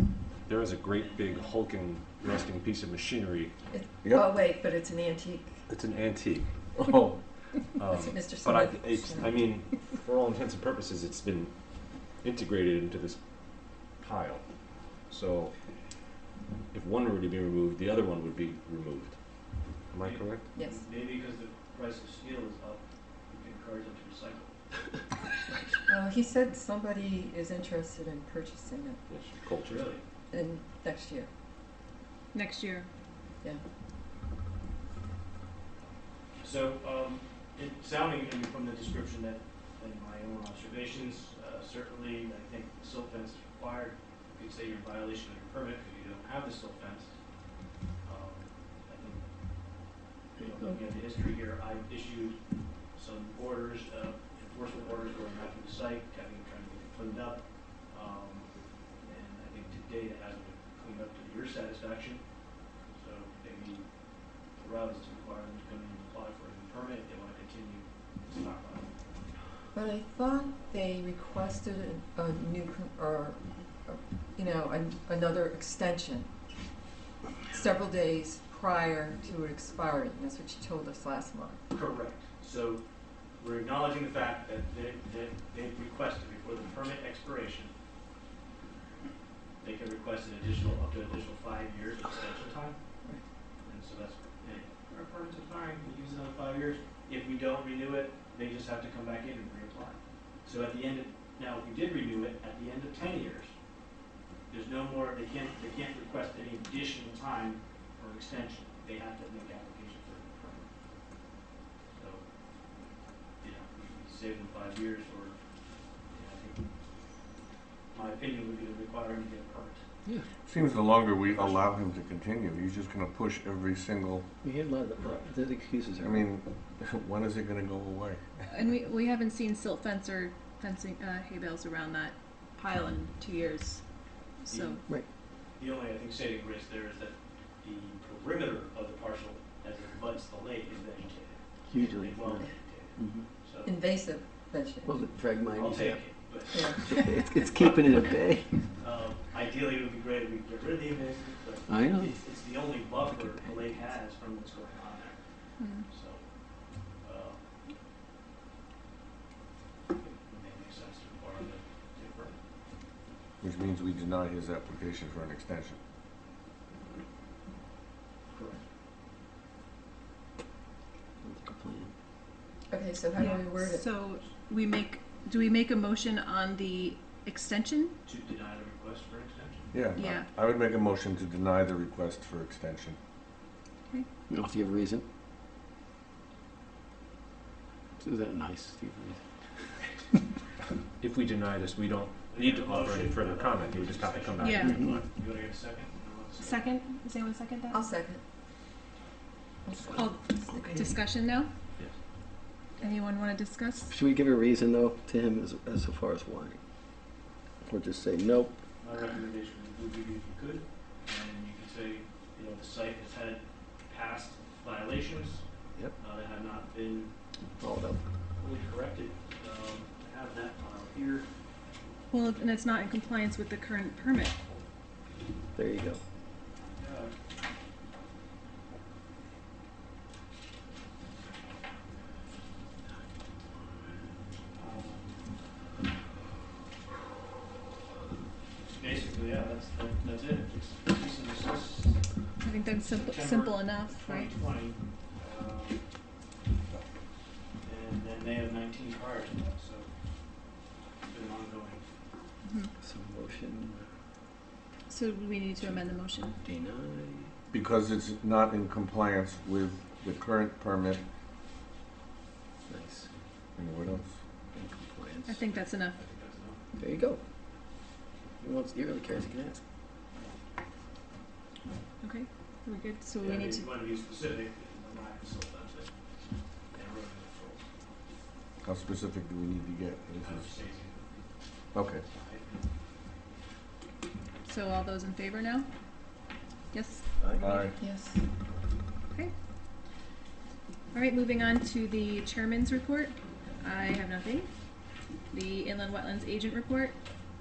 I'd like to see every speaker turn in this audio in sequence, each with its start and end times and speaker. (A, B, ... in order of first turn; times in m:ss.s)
0:00.4-0:03.5 A
0:01.0-0:01.6 B
0:03.7-0:05.6 C
0:04.0-0:04.3 D
0:05.7-0:15.5 A
0:07.8-0:10.0 C
0:16.7-0:20.5 A
0:20.0-0:24.6 B
0:20.5-0:20.8 C
0:25.9-0:29.0 C
0:29.1-0:29.9 A
0:29.6-0:30.0 B
0:30.3-0:31.3 C
0:32.3-0:32.9 E
0:36.4-0:47.1 B
0:48.0-0:49.2 B
0:50.4-0:52.4 B
0:52.9-1:02.2 B
1:02.9-1:03.9 B
1:04.5-1:08.9 B
1:09.7-1:16.3 C
1:17.4-1:21.6 C
1:21.7-1:22.8 B
1:23.4-1:27.7 B
1:29.6-1:32.8 B
1:33.6-1:43.5 B
1:44.5-1:50.7 B
1:51.9-1:52.2 B
1:53.4-1:55.4 B
1:56.1-1:56.6 B
1:57.9-1:59.8 B
2:00.4-2:04.3 D
2:01.2-2:01.6 B
2:04.4-2:06.3 F
2:05.0-2:05.3 B
2:06.0-2:08.5 D
2:08.5-2:13.8 E
2:14.4-2:14.8 E
2:14.5-2:14.8 B
2:15.5-2:23.7 B
2:21.7-2:23.3 F
2:23.6-2:25.0 C
2:24.8-2:28.7 F
2:25.6-2:35.2 B
2:26.5-2:26.8 C
2:31.7-2:32.7 F
2:33.2-2:33.6 F
2:35.6-2:35.9 E
2:35.9-2:36.3 B
2:36.9-2:37.4 B
2:40.0-2:42.4 B
2:43.4-2:45.8 D
2:48.3-2:48.6 B
2:51.2-2:51.9 F
2:52.7-2:53.8 C
2:53.2-2:57.9 E
2:58.0-2:59.7 B
2:59.7-3:03.0 D
3:00.0-3:00.3 E
3:04.3-3:05.0 F
3:08.0-3:09.2 F
3:11.0-3:15.0 A
3:12.3-3:16.6 B
3:14.4-3:14.8 E
3:14.6-3:15.0 F
3:16.4-3:17.8 E
3:17.7-3:18.2 C
3:19.7-3:20.9 C
3:20.0-3:21.5 E
3:22.8-3:24.0 E
3:23.9-3:26.6 F
3:27.6-3:28.6 F
3:28.8-3:35.4 B
3:36.0-3:37.1 B
3:37.6-3:38.0 F
3:38.4-3:41.3 B
3:42.1-3:44.4 E
3:45.6-3:46.0 F
3:46.6-3:47.2 B
3:54.5-3:55.2 B
3:58.6-4:02.1 B
4:02.4-4:04.3 E
4:02.8-4:05.8 B
4:07.6-4:09.9 B
4:11.1-4:11.8 B
4:12.4-4:12.7 E
4:12.8-4:13.8 F
4:14.9-4:16.4 E
4:15.6-4:15.9 F
4:16.4-4:17.3 F
4:17.5-4:21.0 D
4:22.7-4:23.1 F
4:23.6-4:24.2 D
4:24.5-4:25.4 F
4:25.3-4:26.0 E
4:25.9-4:26.6 B
4:26.8-4:27.2 F
4:28.4-4:29.6 F
4:32.0-4:33.7 E
4:33.2-4:35.9 B
4:36.7-4:37.7 B
4:38.6-4:40.5 D
4:40.2-4:41.3 B
4:41.7-4:42.0 D
4:42.0-4:42.7 B
4:44.4-4:45.7 E
4:46.7-4:47.1 E
4:47.4-4:47.8 D
4:47.6-4:48.2 C
4:50.9-4:54.5 E
4:55.3-4:57.0 E